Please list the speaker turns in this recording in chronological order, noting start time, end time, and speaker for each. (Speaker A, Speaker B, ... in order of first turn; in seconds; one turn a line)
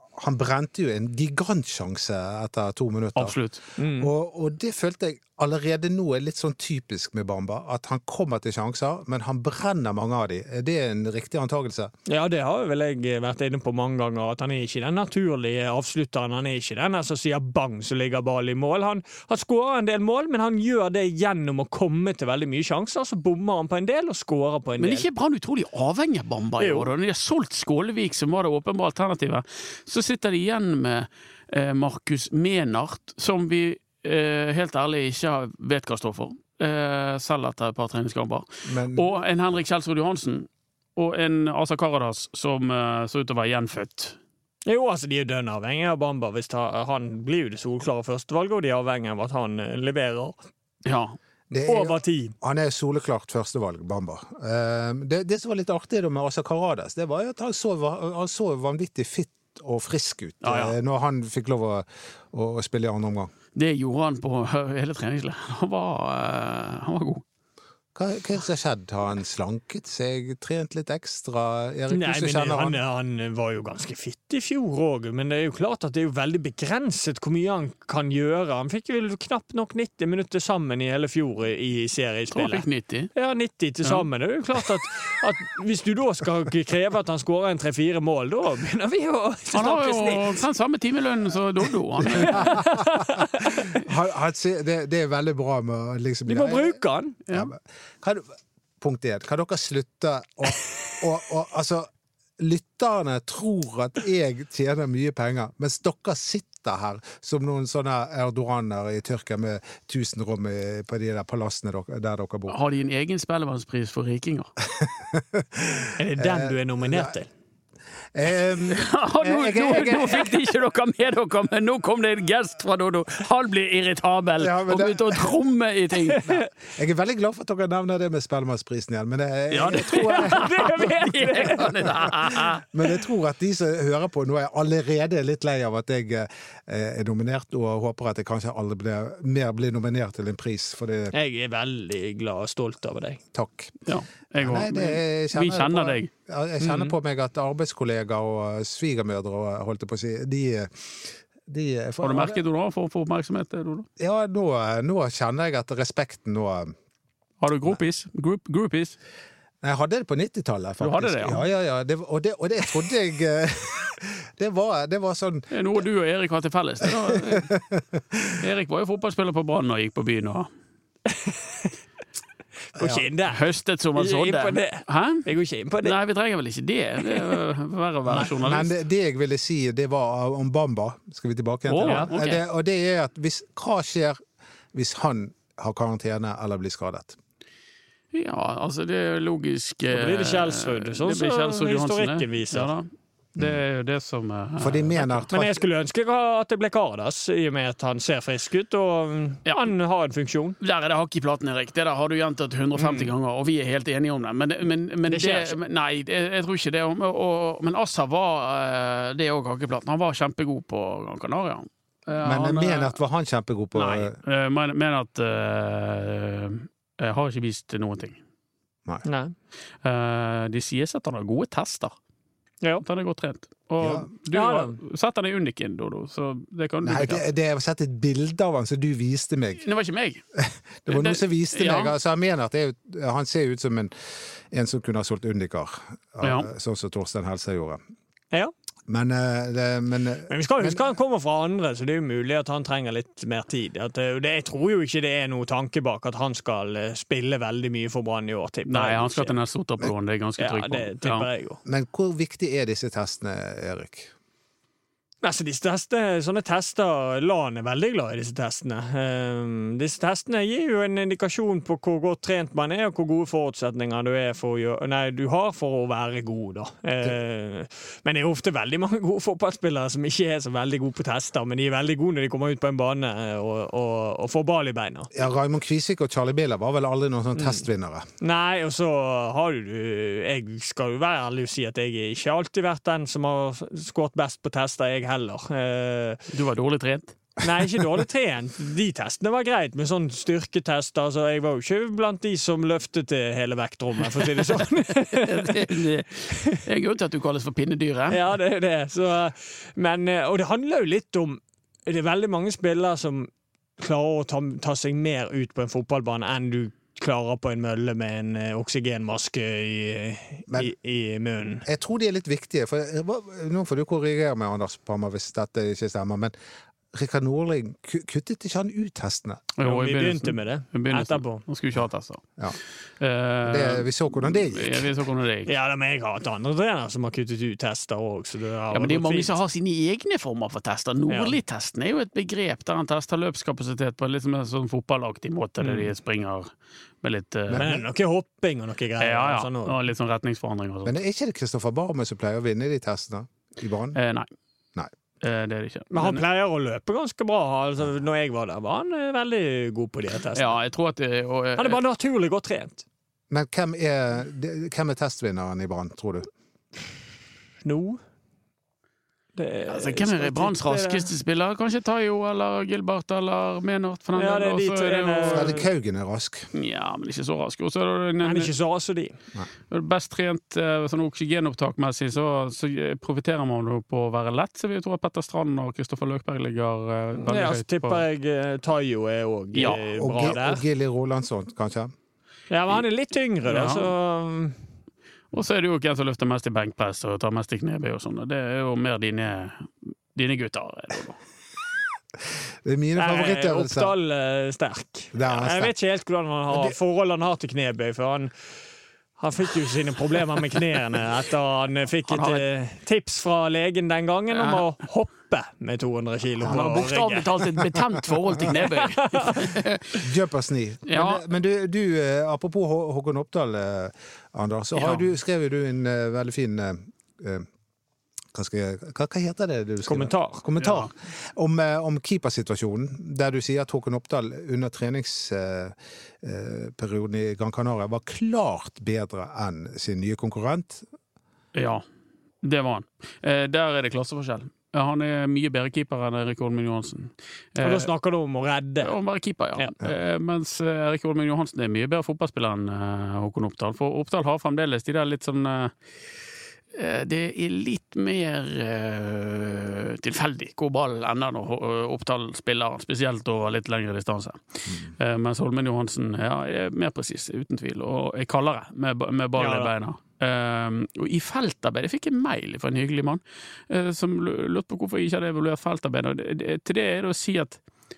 Speaker A: 0.2-3.4
Speaker B: 3.2-3.6
Speaker C: 3.8-4.1
Speaker A: 4.0-11.9
Speaker C: 12.1-25.1
Speaker B: 24.8-44.2
Speaker C: 26.6-26.9
Speaker A: 38.6-39.1
Speaker C: 44.6-50.4
Speaker B: 50.9-51.2
Speaker A: 51.5-63.3
Speaker C: 51.7-52.4
Speaker B: 60.4-60.8
Speaker B: 63.5-67.2
Speaker A: 68.0-72.8
Speaker C: 71.9-90.4
Speaker B: 82.3-83.1
Speaker B: 89.5-92.6
Speaker A: 92.2-96.8
Speaker C: 92.2-93.7
Speaker C: 96.3-97.2
Speaker B: 97.3-97.5
Speaker A: 97.3-98.2
Speaker A: 98.8-101.9
Speaker A: 102.4-112.6
Speaker B: 112.5-114.5
Speaker A: 114.8-117.2
Speaker C: 116.0-117.3
Speaker A: 118.1-120.4
Speaker B: 118.7-126.4
Speaker A: 124.4-125.3
Speaker A: 126.3-130.8
Speaker B: 129.5-132.6
Speaker C: 129.9-131.9
Speaker A: 132.3-141.1
Speaker C: 141.1-143.2
Speaker A: 143.3-143.8
Speaker B: 143.8-146.1
Speaker A: 144.4-152.4
Speaker C: 146.6-146.9
Speaker B: 152.0-153.9
Speaker A: 154.0-156.7
Speaker B: 157.4-159.0
Speaker A: 159.6-165.5
Speaker B: 160.8-161.4
Speaker B: 165.5-167.5
Speaker A: 167.1-168.4
Speaker B: 168.4-170.5
Speaker C: 171.1-171.7
Speaker C: 172.7-173.4
Speaker A: 172.8-173.0
Speaker B: 173.3-175.2
Speaker C: 174.0-176.0
Speaker B: 175.8-178.7
Speaker C: 177.0-177.4
Speaker A: 178.1-184.2
Speaker B: 181.7-182.4
Speaker C: 181.8-182.1
Speaker A: 184.7-187.2
Speaker B: 188.1-195.3
Speaker C: 189.9-192.7
Speaker A: 194.6-195.6
Speaker C: 195.3-200.6
Speaker B: 199.5-199.7
Speaker B: 200.6-213.0
Speaker C: 202.8-203.1
Speaker C: 205.1-205.6
Speaker A: 212.2-214.2
Speaker B: 213.8-218.2
Speaker C: 219.0-219.3
Speaker B: 219.8-221.9
Speaker B: 222.8-227.3
Speaker A: 223.8-224.1
Speaker C: 224.3-224.8
Speaker A: 226.8-229.6
Speaker B: 229.6-230.2
Speaker A: 230.3-233.9
Speaker B: 230.9-231.9
Speaker A: 234.5-237.8
Speaker B: 236.2-236.5
Speaker A: 238.9-240.8
Speaker C: 240.3-249.4
Speaker B: 248.7-251.3
Speaker C: 250.4-251.6
Speaker A: 251.7-254.1
Speaker C: 255.2-275.1
Speaker A: 275.1-278.1
Speaker C: 277.4-277.6
Speaker C: 278.2-286.3
Speaker B: 286.3-287.1
Speaker C: 287.4-296.6
Speaker B: 295.1-298.2
Speaker C: 298.1-311.7
Speaker A: 311.7-316.3
Speaker A: 316.9-319.5
Speaker B: 319.6-322.2
Speaker C: 319.6-321.4
Speaker B: 323.0-325.5
Speaker A: 323.4-324.9
Speaker C: 325.5-329.4
Speaker B: 328.7-336.5
Speaker C: 331.1-331.4
Speaker C: 335.6-335.9
Speaker B: 337.0-337.7
Speaker A: 337.5-337.8
Speaker C: 337.5-339.8
Speaker B: 339.0-341.0
Speaker A: 340.9-344.0
Speaker B: 343.9-344.3
Speaker B: 345.2-346.2
Speaker C: 345.9-350.6
Speaker B: 350.3-351.8
Speaker C: 351.6-352.8
Speaker A: 353.3-356.3
Speaker C: 357.6-358.0
Speaker C: 359.4-361.1
Speaker B: 359.7-365.6
Speaker C: 364.1-365.7
Speaker A: 365.3-366.5
Speaker B: 366.5-368.5
Speaker C: 368.2-369.2
Speaker B: 369.7-378.1
Speaker C: 377.3-380.6
Speaker B: 379.6-379.8
Speaker A: 379.7-381.9
Speaker C: 382.5-384.6
Speaker B: 383.5-383.9
Speaker B: 385.3-391.2
Speaker A: 392.6-393.9
Speaker C: 393.0-398.3
Speaker A: 395.1-395.7
Speaker C: 399.2-407.6
Speaker B: 402.1-402.4
Speaker B: 404.3-404.6
Speaker A: 406.4-406.9
Speaker B: 406.5-410.0
Speaker C: 408.4-409.5
Speaker A: 410.0-417.5
Speaker B: 410.9-411.2
Speaker B: 414.8-415.1
Speaker A: 418.3-430.8
Speaker C: 419.9-420.4
Speaker B: 420.6-420.9
Speaker B: 431.5-431.8
Speaker B: 432.4-437.9
Speaker C: 437.6-438.9
Speaker B: 438.8-445.7
Speaker B: 446.7-467.6
Speaker C: 459.4-459.7